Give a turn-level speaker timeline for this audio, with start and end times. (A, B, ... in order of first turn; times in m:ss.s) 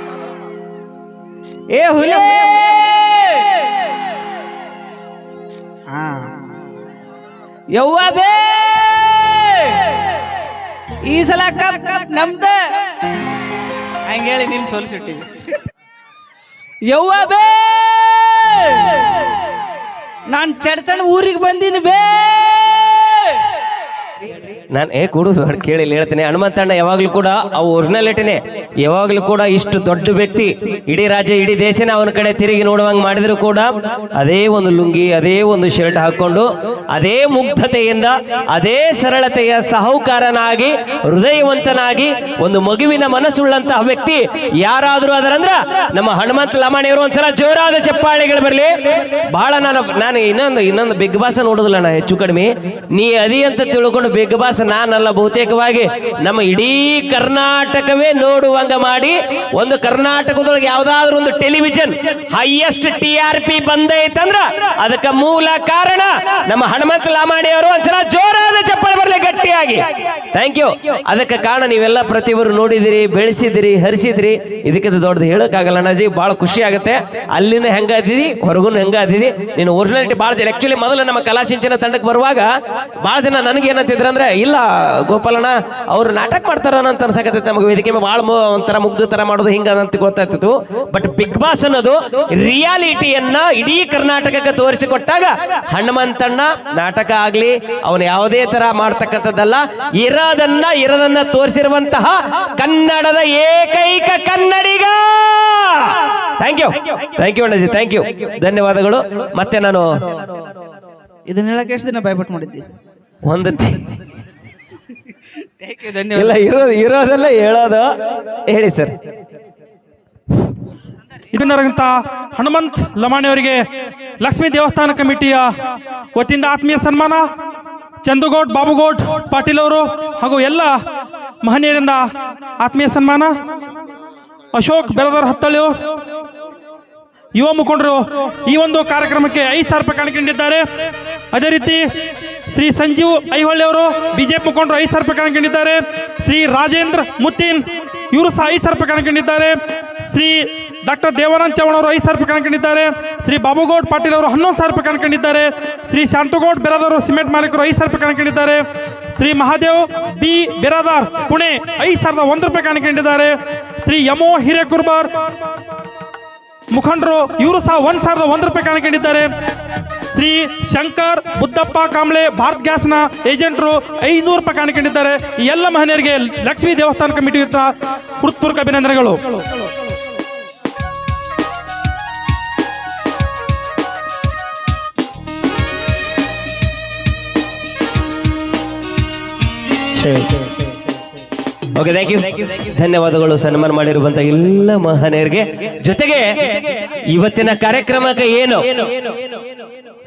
0:01.7-0:03.5 A
0:05.9-0:06.3 A
0:07.7-0:10.0 A
0:11.0-0:12.6 A
0:14.1-0:15.4 A
0:16.9-0:19.0 A
0:20.3-0:23.2 A
0:24.7-1:22.5 B
1:23.0-1:49.9 B
1:51.3-1:52.6 A
1:53.2-1:53.8 B
1:55.6-1:56.4 A
1:56.1-1:57.9 B
1:58.5-1:58.9 B
2:01.3-2:03.6 C
2:04.2-2:05.5 C
2:06.2-2:07.2 C
2:08.0-2:10.8 C
2:11.4-2:12.0 C
2:12.6-2:13.3 C
2:14.5-2:15.9 C
2:17.4-2:20.6 C
2:21.3-2:21.9 C
2:22.5-2:45.1 C
2:46.7-2:49.3 C
2:50.1-2:59.4 C
3:09.9-3:10.4 B
3:11.8-3:19.1 B